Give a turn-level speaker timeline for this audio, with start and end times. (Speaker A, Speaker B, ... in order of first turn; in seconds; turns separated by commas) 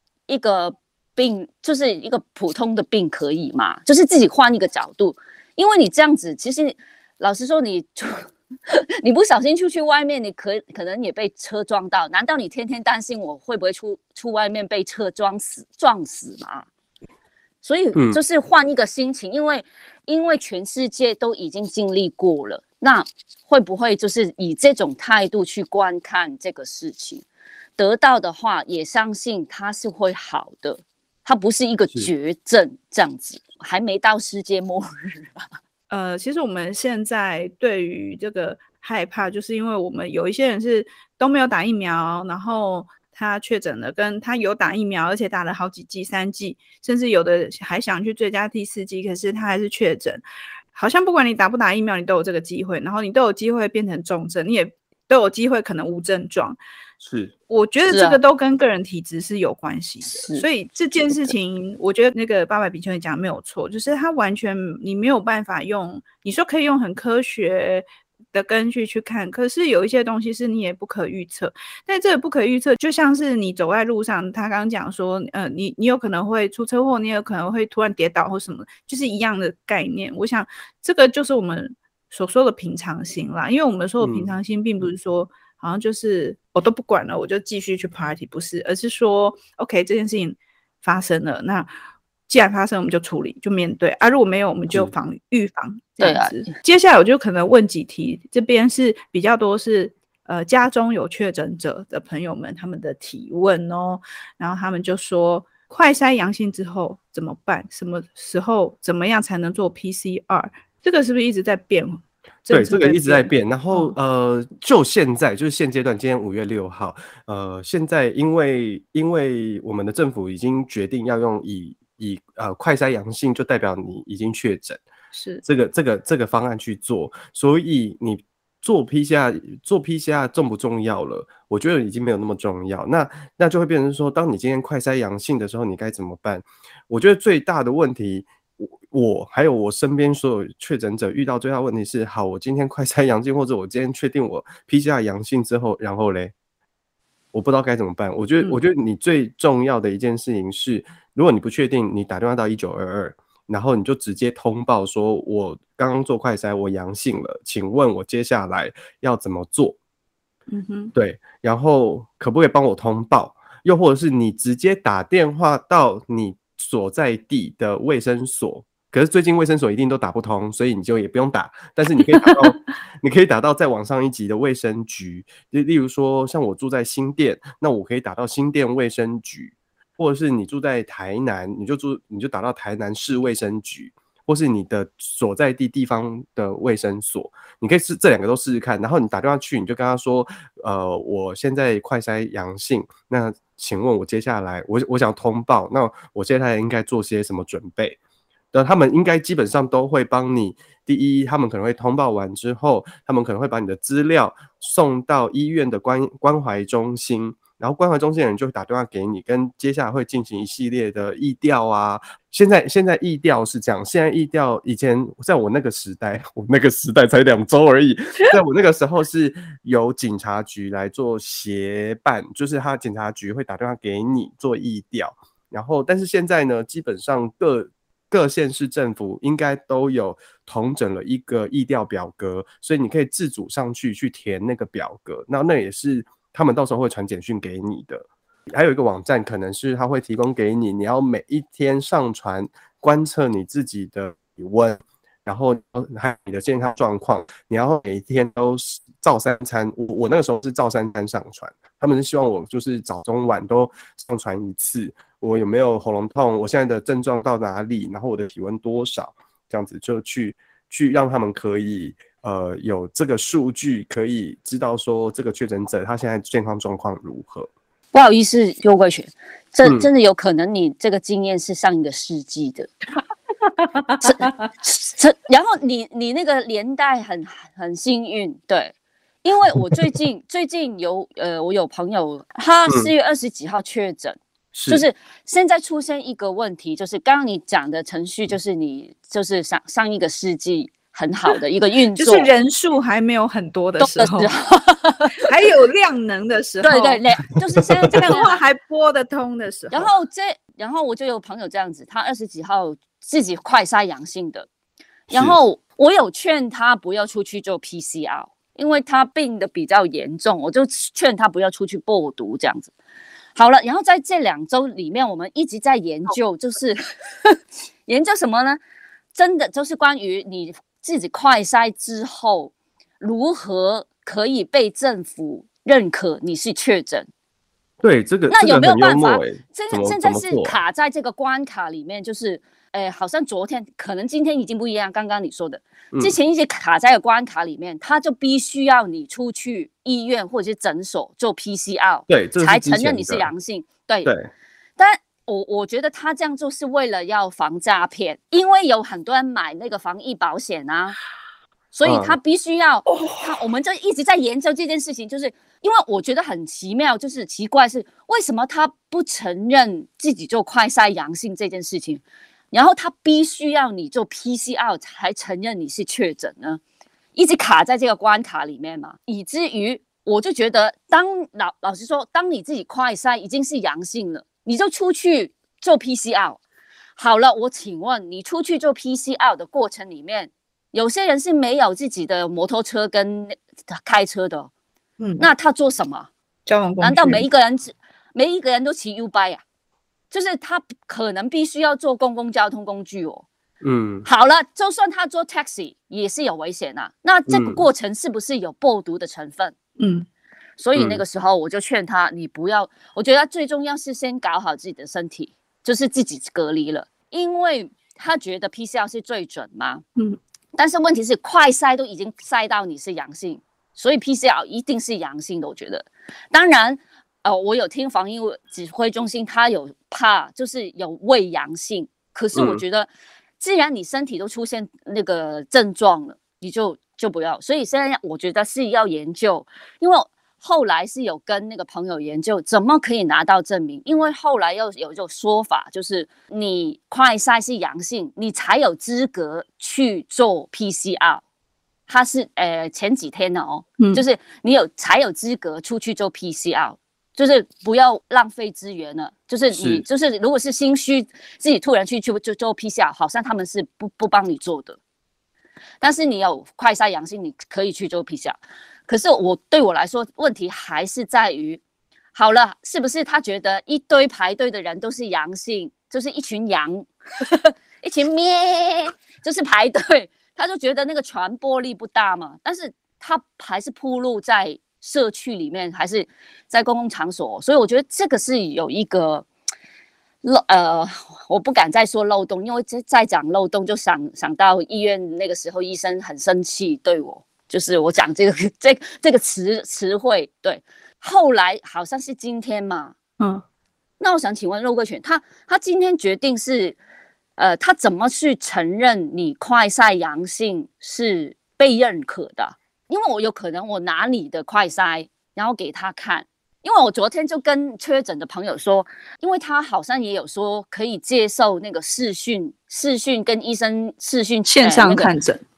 Speaker A: 0.3-16.7, Speaker A: 17.6-27.2, Speaker B: 17.9-18.2, Speaker A: 27.8-35.5, Speaker C: 35.9-50.2, Speaker C: 50.7-56.6, Speaker B: 57.0-57.3, Speaker C: 57.5-91.7, Speaker A: 57.9-58.2, Speaker A: 60.1-60.4, Speaker B: 84.0-84.4, Speaker C: 92.3-113.9, Speaker A: 96.0-96.5, Speaker B: 112.5-124.8, Speaker C: 125.1-125.4, Speaker B: 125.4-146.3, Speaker B: 147.3-159.8, Speaker C: 160.5-160.9, Speaker B: 160.9-198.0, Speaker C: 172.1-172.5, Speaker B: 198.5-267.5, Speaker A: 267.9-272.7, Speaker C: 273.8-274.1, Speaker A: 274.0-292.3, Speaker B: 284.5-284.9, Speaker C: 292.0-294.3, Speaker A: 293.8-295.3, Speaker C: 295.2-297.0, Speaker A: 296.6-298.4, Speaker B: 297.8-298.1, Speaker C: 297.9-299.9, Speaker A: 299.7-304.5, Speaker B: 305.1-305.4, Speaker A: 305.1-312.7, Speaker A: 313.4-318.6, Speaker A: 319.1-327.1, Speaker B: 327.8-330.6, Speaker A: 328.3-344.1, Speaker B: 335.9-336.2, Speaker B: 342.1-343.3, Speaker B: 344.0-344.3, Speaker A: 344.8-351.0, Speaker A: 351.7-366.6, Speaker B: 351.8-352.1, Speaker A: 367.1-376.4, Speaker A: 377.0-384.5, Speaker C: 385.0-385.3, Speaker A: 385.2-386.1, Speaker C: 386.4-387.2, Speaker A: 386.8-389.4, Speaker A: 390.1-393.2, Speaker B: 393.6-394.1, Speaker A: 394.0-399.5, Speaker B: 397.3-397.6, Speaker C: 399.8-400.1, Speaker A: 400.6-409.8, Speaker B: 400.7-401.0, Speaker A: 410.6-422.9, Speaker B: 422.3-422.6, Speaker A: 423.4-441.2, Speaker A: 441.9-454.8, Speaker B: 449.5-449.8, Speaker A: 455.8-461.6, Speaker A: 462.1-479.3, Speaker A: 480.2-492.9, Speaker A: 494.0-496.8, Speaker A: 497.4-515.1, Speaker C: 514.5-515.4